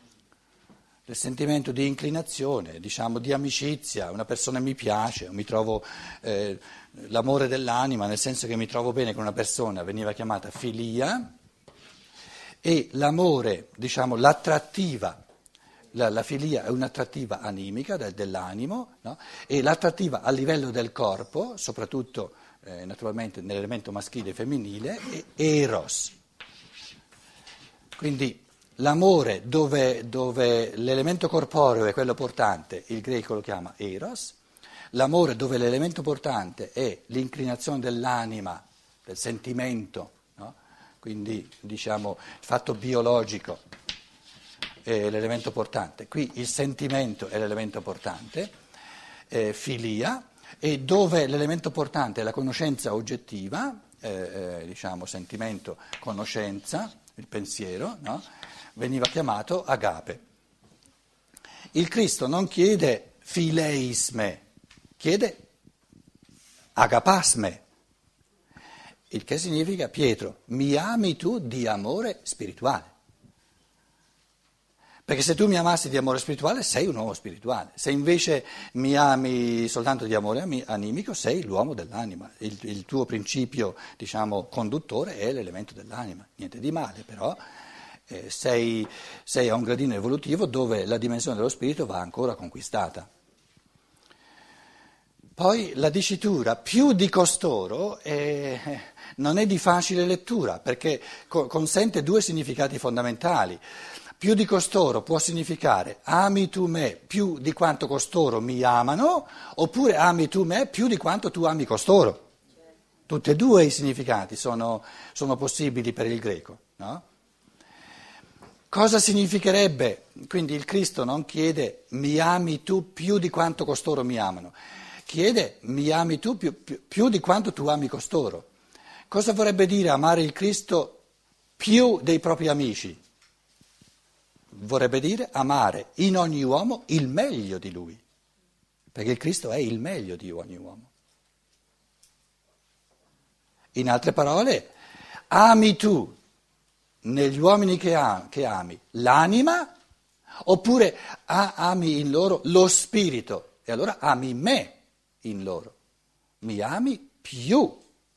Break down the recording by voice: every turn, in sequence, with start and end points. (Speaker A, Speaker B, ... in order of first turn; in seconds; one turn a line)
Speaker A: 1.1-11.3
Speaker A: 12.6-15.2
Speaker A: 15.9-26.1
Speaker A: 28.0-34.4
Speaker A: 34.9-43.6
Speaker A: 44.8-48.5
Speaker A: 49.3-58.2
Speaker A: 58.8-60.2
Speaker A: 61.7-64.4
Speaker A: 65.0-65.4
Speaker A: 66.8-67.6
Speaker A: 69.1-72.9
Speaker A: 75.0-87.4
Speaker A: 88.1-93.1
Speaker A: 95.4-103.6
Speaker A: 104.2-112.2
Speaker A: 113.1-117.0
Speaker A: 118.7-124.5
Speaker A: 125.0-128.5
Speaker A: 129.1-131.0
Speaker A: 131.6-133.0
Speaker A: 134.5-138.0
Speaker A: 138.9-140.9
Speaker A: 143.7-144.7
Speaker A: 145.3-146.1
Speaker A: 147.0-149.7
Speaker A: 150.4-155.7
Speaker A: 156.4-157.8